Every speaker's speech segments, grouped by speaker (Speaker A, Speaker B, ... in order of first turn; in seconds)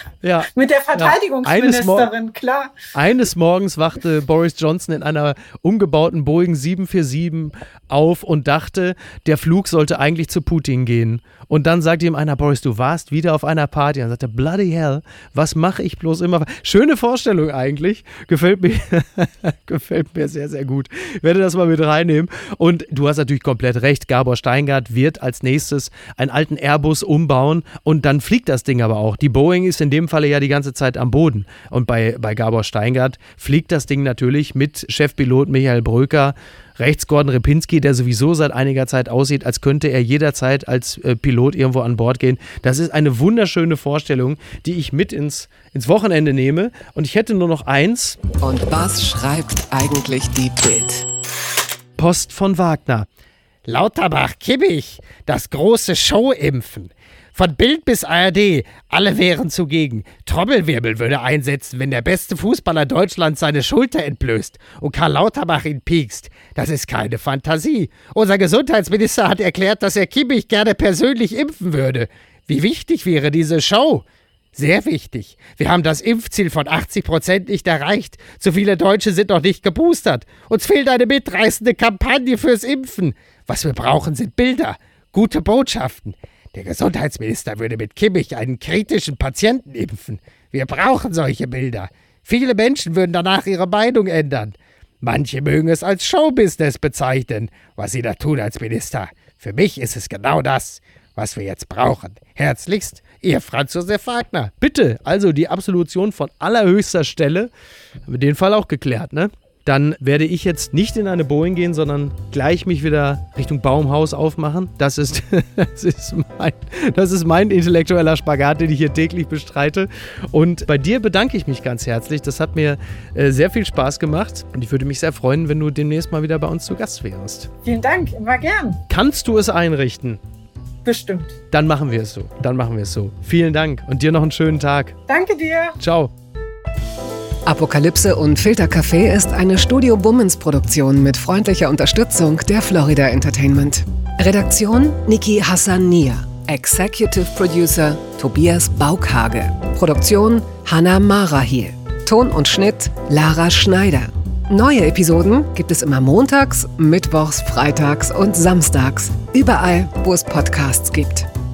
Speaker A: 0.2-2.1, 2.9-48.2, 52.0-53.1, 53.7-74.0, 74.5-107.5, 108.1-127.5, 128.9-130.2, 131.5-134.9, 135.8-136.1
Speaker B: 0.5-2.8, 127.6-128.8, 130.8-131.4, 135.1-135.8
Speaker C: 48.4-51.1, 137.5-161.3